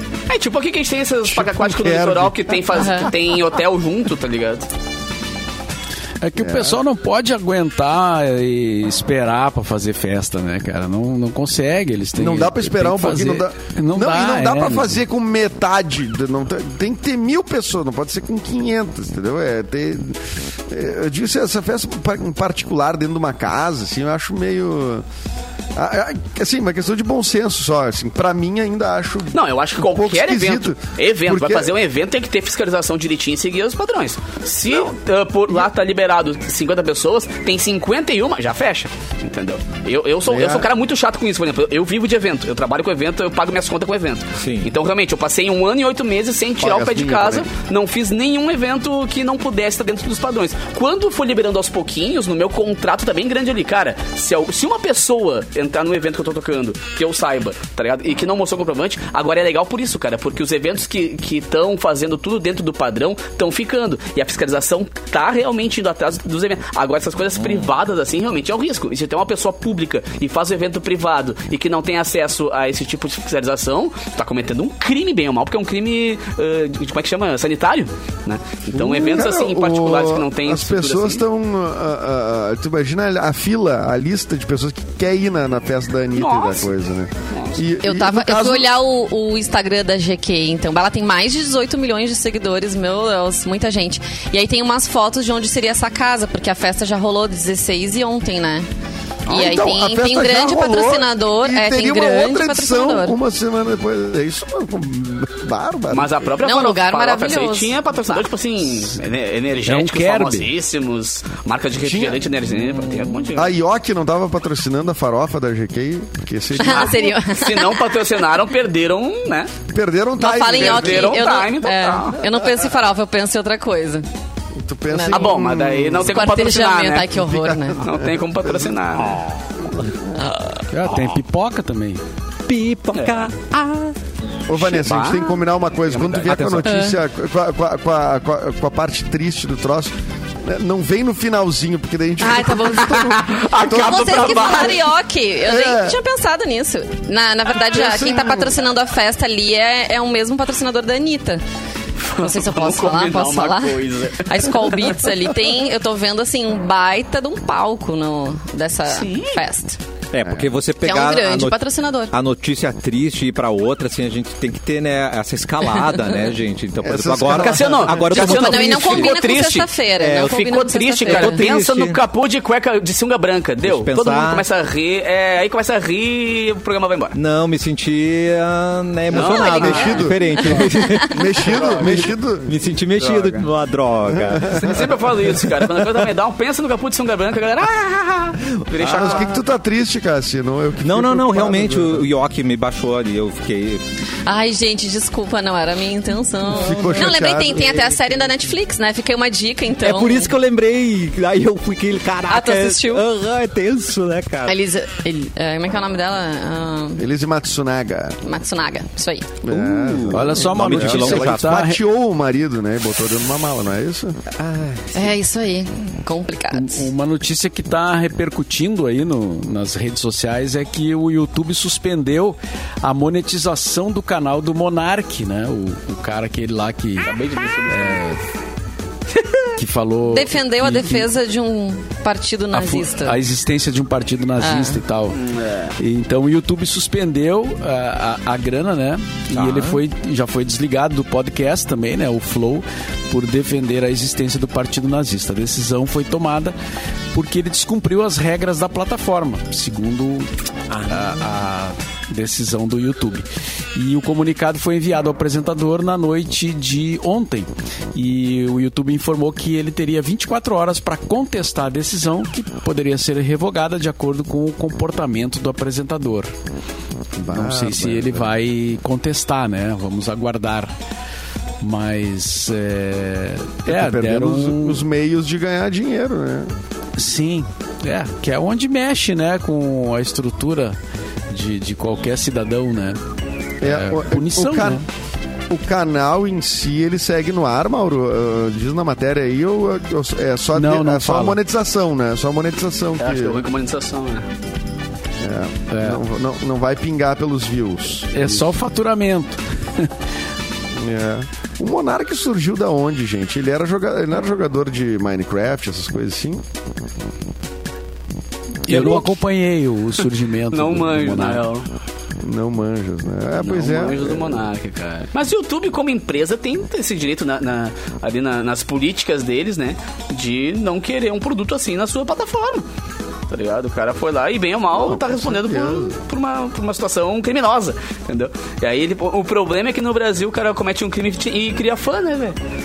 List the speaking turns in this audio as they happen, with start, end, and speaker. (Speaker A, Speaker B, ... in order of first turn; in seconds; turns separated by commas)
Speaker A: 0.3-4.7, Speaker B: 1.3-2.8, Speaker C: 2.7-3.1, Speaker D: 6.2-15.0, Speaker B: 6.4-6.8, Speaker B: 12.2-25.1, Speaker B: 25.8-31.7, Speaker A: 29.3-81.2, Speaker B: 40.3-40.7, Speaker E: 44.4-44.7, Speaker B: 46.6-47.5, Speaker E: 67.4-67.7, Speaker B: 78.7-88.7, Speaker A: 86.2-86.7, Speaker A: 87.3-87.6, Speaker C: 87.8-98.7, Speaker C: 99.3-103.2, Speaker B: 99.3-106.3, Speaker A: 105.9-113.5, Speaker C: 106.4-108.3, Speaker D: 109.7-110.5, Speaker B: 111.8-112.3, Speaker B: 113.3-117.1, Speaker C: 116.6-118.0, Speaker A: 116.6-119.5, Speaker B: 119.7-121.3, Speaker C: 120.2-124.0, Speaker A: 120.5-122.2, Speaker B: 124.6-126.3, Speaker C: 124.9-125.3, Speaker A: 125.1-127.2, Speaker C: 126.0-127.8, Speaker B: 127.1-128.8, Speaker A: 127.8-129.2, Speaker B: 129.7-130.1, Speaker D: 130.7-132.0, Speaker E: 132.5-133.9, Speaker A: 132.9-133.3, Speaker B: 134.5-144.8, Speaker A: 134.5-136.7, Speaker C: 136.6-137.0, Speaker C: 142.2-151.4, Speaker A: 142.8-144.8, Speaker B: 145.4-146.0, Speaker B: 147.7-148.6, Speaker A: 152.0-155.2, Speaker C: 152.2-159.8, Speaker A: 158.9-159.4, Speaker E: 160.1-161.6, Speaker B: 160.2-160.5, Speaker C: 160.8-162.1, Speaker E: 162.1-169.1, Speaker B: 166.8-168.2, Speaker A: 167.3-177.2, Speaker C: 168.1-171.4, Speaker E: 170.0-170.4, Speaker E: 171.0-172.0, Speaker E: 173.6-174.4, Speaker E: 177.2-184.8, Speaker A: 179.1-180.0, Speaker C: 179.2-181.1, Speaker B: 179.6-180.2, Speaker B: 181.1-182.6, Speaker A: 181.4-182.1, Speaker A: 183.0-183.5, Speaker B: 184.1-184.8, Speaker A: 184.5-189.4, Speaker E: 185.3-186.0, Speaker B: 188.8-192.1, Speaker E: 190.8-193.8, Speaker C: 194.3-200.3, Speaker B: 196.5-197.9, Speaker E: 199.8-204.6, Speaker C: 202.3-203.0, Speaker C: 204.5-207.0, Speaker B: 207.0-208.2, Speaker C: 208.2-209.4, Speaker B: 209.4-214.2, Speaker E: 209.5-211.5, Speaker D: 210.1-211.8, Speaker E: 214.4-215.0, Speaker C: 214.9-216.9, Speaker D: 216.5-227.1, Speaker A: 227.0-228.0, Speaker D: 227.7-228.2, Speaker D: 229.6-231.1, Speaker C: 230.1-233.2, Speaker D: 232.5-235.2, Speaker C: 234.4-234.8, Speaker A: 235.1-235.7, Speaker D: 235.8-246.6, Speaker E: 239.3-239.8, Speaker D: 247.1-250.3, Speaker E: 250.7-251.1, Speaker D: 250.9-266.3, Speaker B: 267.2-268.3, Speaker D: 267.3-270.7, Speaker D: 271.6-274.8, Speaker B: 273.7-276.6, Speaker D: 277.0-280.8, Speaker D: 281.3-283.0, Speaker B: 283.6-284.8, Speaker D: 283.6-284.9, Speaker B: 285.5-293.4, Speaker D: 290.6-291.4, Speaker A: 293.0-294.3, Speaker B: 295.2-298.5, Speaker D: 295.7-296.0, Speaker D: 298.1-299.9, Speaker B: 300.8-306.4, Speaker D: 308.7-311.5, Speaker A: 308.7-309.1, Speaker A: 310.5-311.7, Speaker B: 312.2-314.4, Speaker A: 313.4-322.7, Speaker A: 323.3-332.4, Speaker B: 324.7-326.0